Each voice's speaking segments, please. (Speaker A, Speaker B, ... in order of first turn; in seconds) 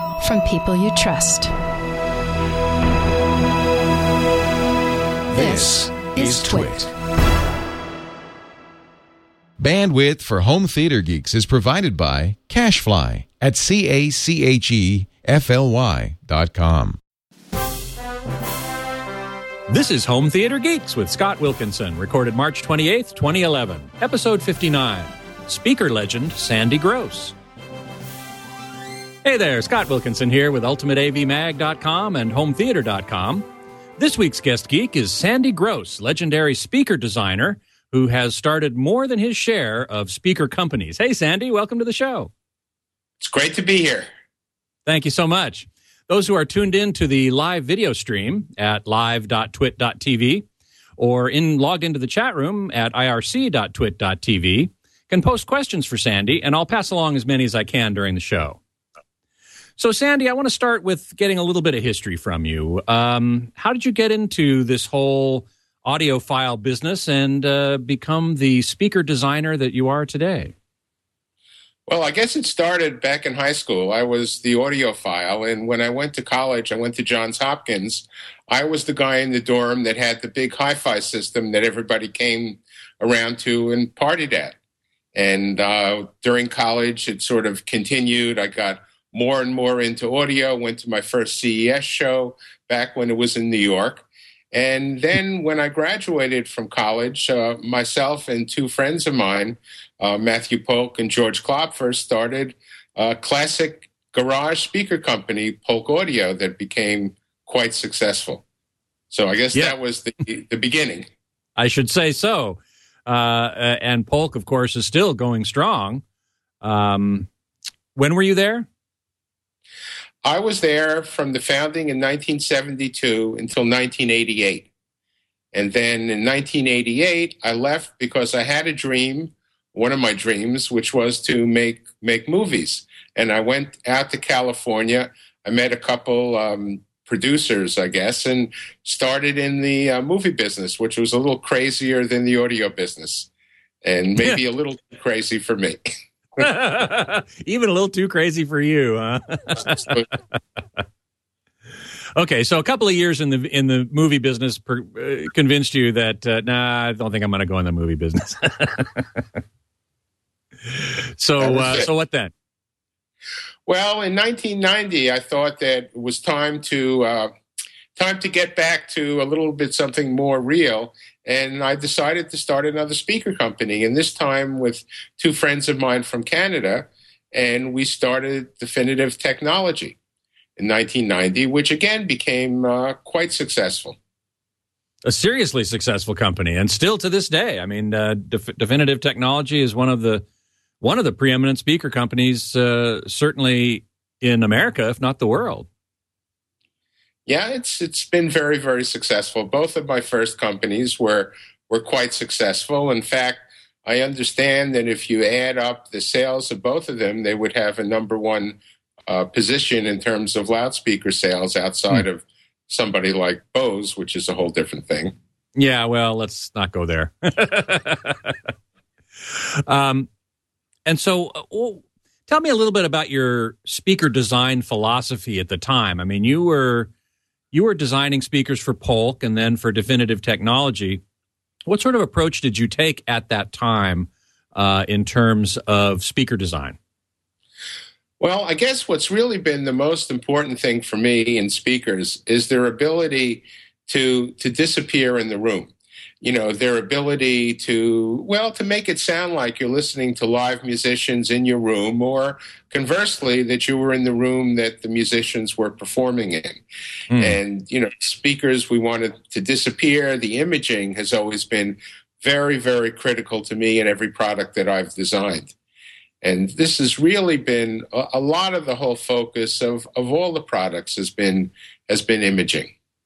Speaker A: 0.2-1.5, 5.3-6.8
Speaker B: 5.3-6.9, 9.6-17.0
Speaker C: 19.7-27.3, 29.2-33.4, 34.0-42.3, 44.9-50.5, 51.0-58.6, 59.8-70.5, 111.5-116.0, 116.6-117.3, 118.0-118.7, 146.4-150.1, 152.2-159.2, 160.7-162.3, 185.0-190.2, 190.8-195.7, 215.6-218.3, 219.2-220.1, 220.8-226.9, 227.5-231.0, 231.7-236.8, 257.1-257.4
Speaker D: 43.2-44.1, 71.9-84.5, 85.1-108.4, 109.1-111.1, 120.2-124.7, 125.5-143.3, 143.8-145.8, 161.4-161.9, 163.7-167.3, 167.9-180.0, 180.6-184.0, 197.2-215.1, 238.2-256.6, 257.2-265.5, 266.2-272.7